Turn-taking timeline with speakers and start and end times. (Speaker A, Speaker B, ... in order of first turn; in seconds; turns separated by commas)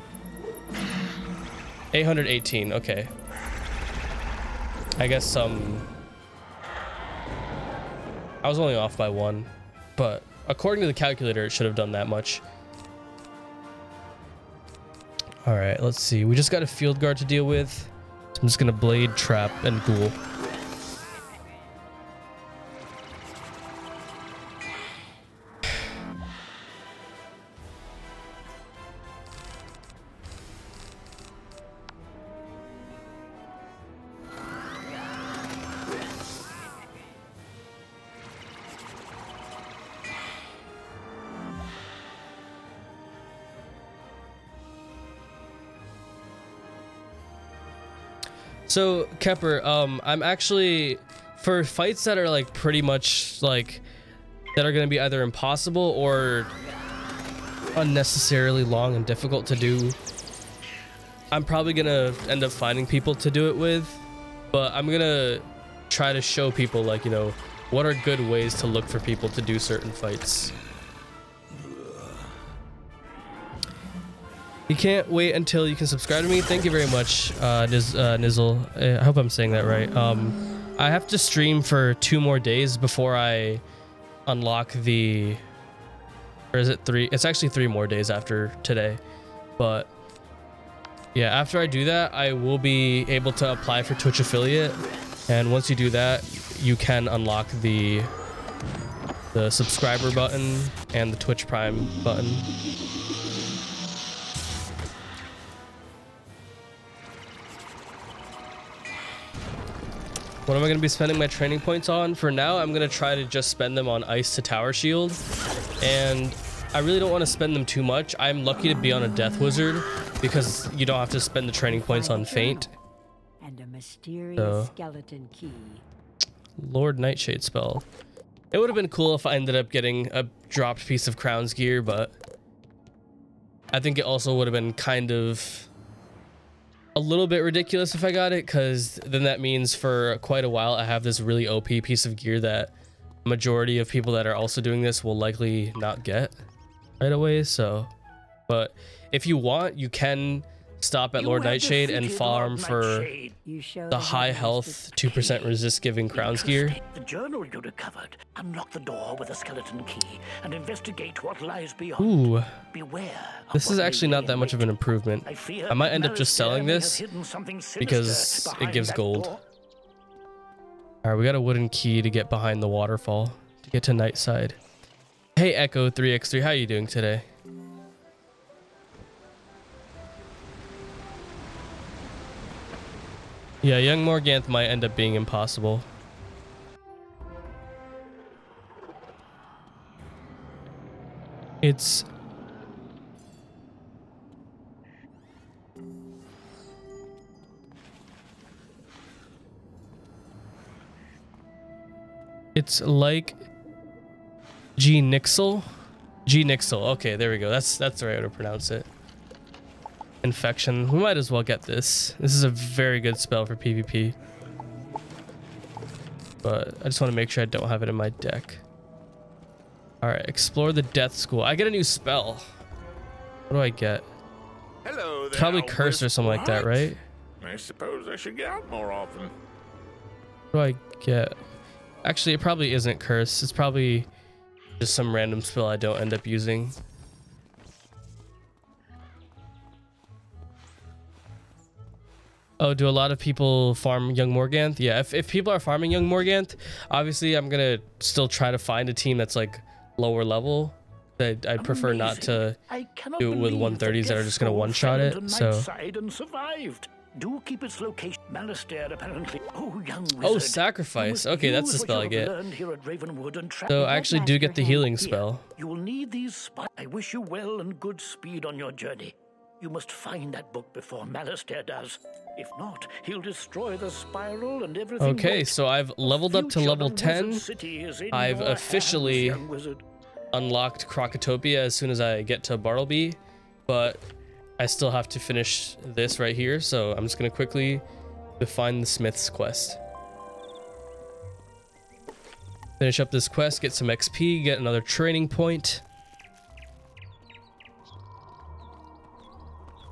Speaker A: 1.9-3.1, Speaker A: 5.0-5.9, Speaker A: 8.4-12.4, Speaker A: 15.4-20.1, Speaker A: 48.7-53.8, Speaker A: 54.5-56.5, Speaker A: 57.8-60.0, Speaker A: 61.3-70.5, Speaker A: 74.7-83.6, Speaker A: 84.3-85.4, Speaker A: 86.5-89.0, Speaker A: 89.6-89.9, Speaker A: 91.1-98.1, Speaker A: 99.3-102.5, Speaker A: 110.5-115.2, Speaker A: 115.8-122.7, Speaker B: 121.7-122.7, Speaker B: 123.4-125.8, Speaker A: 124.3-124.7, Speaker A: 126.6-127.8, Speaker A: 128.5-132.2, Speaker A: 133.7-135.7, Speaker A: 136.9-142.7, Speaker A: 143.2-146.3, Speaker A: 147.0-147.9, Speaker A: 148.5-153.1, Speaker C: 151.2-153.4, Speaker B: 153.4-155.0, Speaker A: 153.9-156.8, Speaker C: 156.1-162.1, Speaker A: 162.0-162.5, Speaker C: 162.7-164.6, Speaker A: 163.5-167.0, Speaker C: 165.2-169.4, Speaker A: 167.8-169.3, Speaker A: 171.0-174.6, Speaker A: 175.3-177.2, Speaker A: 183.6-185.8, Speaker A: 191.6-192.1, Speaker A: 202.5-203.4, Speaker A: 204.8-205.7, Speaker A: 206.2-208.9, Speaker A: 210.2-214.1, Speaker A: 216.4-218.6, Speaker A: 220.0-222.4, Speaker A: 223.5-224.0, Speaker D: 224.8-226.0, Speaker A: 225.3-227.0, Speaker D: 227.4-229.2, Speaker A: 230.5-231.3, Speaker A: 232.0-234.1, Speaker A: 234.8-236.8, Speaker A: 242.6-252.6, Speaker C: 251.6-264.1, Speaker A: 253.2-255.7, Speaker A: 260.2-262.3, Speaker A: 263.7-265.4, Speaker B: 263.8-264.9, Speaker C: 265.0-279.8, Speaker A: 275.0-277.4, Speaker A: 278.1-279.4, Speaker A: 280.3-284.0, Speaker A: 284.6-287.8, Speaker A: 288.4-289.8, Speaker A: 292.8-295.8